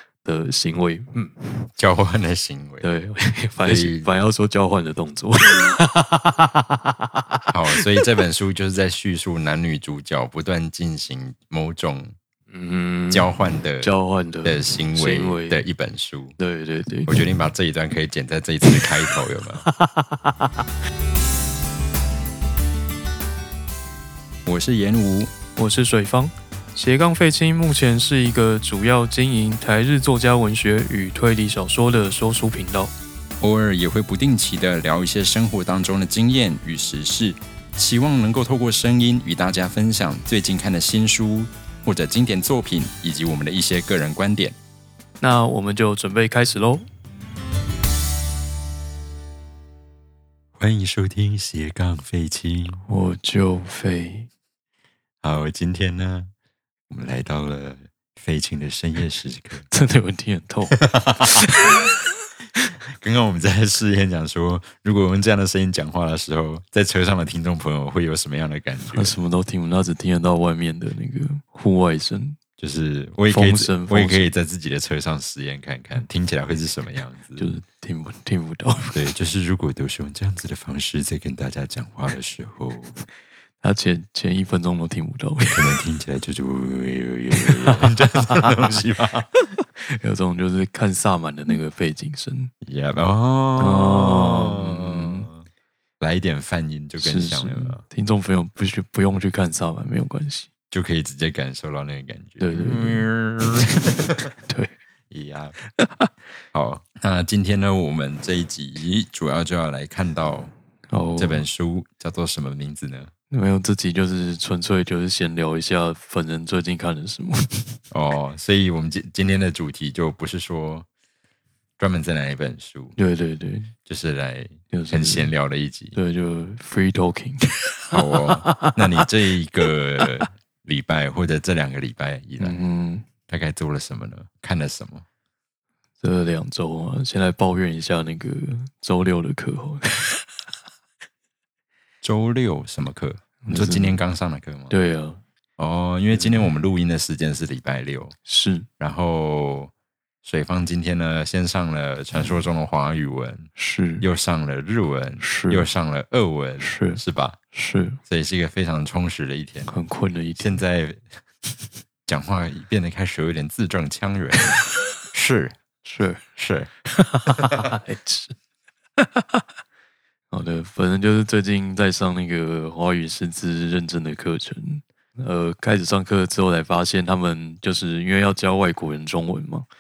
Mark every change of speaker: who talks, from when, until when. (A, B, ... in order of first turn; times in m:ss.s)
0:00.2-0:01.4 A
0:01.8-0:02.9 B
0:02.8-0:06.7 A
0:03.6-0:04.1 B
0:07.5-0:12.2 B
0:07.8-0:08.0 A
0:12.5-0:15.6 A
0:13.1-0:13.9 B
0:14.4-0:16.4 B
0:16.4-0:17.2 A
0:17.1-0:19.7 B
0:19.6-0:20.5 A
0:24.5-0:25.3 B
0:25.6-0:32.9 A
0:33.4-0:44.6 B
0:45.2-0:46.9 A
0:50.6-0:52.8 B
0:52.9-0:54.3 A
0:55.2-0:56.3 B
0:56.9-0:59.6 B
0:59.7-1:02.0 A
1:00.8-1:01.5 B
1:03.0-1:09.2 B
1:08.8-1:12.4 A
1:12.6-1:17.4 B
1:13.3-1:14.3 A
1:17.4-1:19.0 A
1:18.9-1:22.9 B
1:23.6-1:25.8 A
1:25.5-1:29.3 B
1:27.4-1:27.8 A
1:29.4-1:32.5 A
1:32.6-1:35.4 B
1:33.6-1:35.3 A
1:36.0-1:37.8 B
1:37.0-1:40.5 A
1:40.7-1:44.3 B
1:42.4-1:43.1 A
1:44.5-1:44.7 A
1:45.1-1:45.6 B
1:45.8-1:46.1 A
1:46.5-1:50.5 B
1:50.9-1:51.4 A
1:51.2-1:53.1 B
1:53.3-1:57.8 A
1:57.9-2:00.9 B
2:01.8-2:03.0 B
2:03.0-2:03.7 A
2:03.9-2:06.0 B
2:04.7-2:05.3 A
2:05.9-2:09.0 A
2:07.9-2:12.6 B
2:12.4-2:13.1 A
2:13.3-2:15.0 B
2:16.0-2:20.2 A
2:22.0-2:24.7 B
2:23.4-2:24.0 A
2:24.7-2:25.2 A
2:25.6-2:28.2 B
2:26.1-2:26.4 A
2:28.3-2:28.7 A
2:28.8-2:29.7 B
2:30.2-2:33.5 B
2:33.6-2:34.1 A
2:34.0-2:37.4 B
2:35.2-2:35.7 A
2:36.6-2:37.0 A
2:37.5-2:38.0 A
2:38.1-2:39.7 B
2:39.7-2:40.6 A
2:40.4-2:41.1 B
2:42.1-2:45.6 B
2:45.8-2:46.2 A
2:46.4-2:46.7 B
2:46.9-2:48.3 A
2:49.0-2:49.4 A
2:50.3-2:59.7 A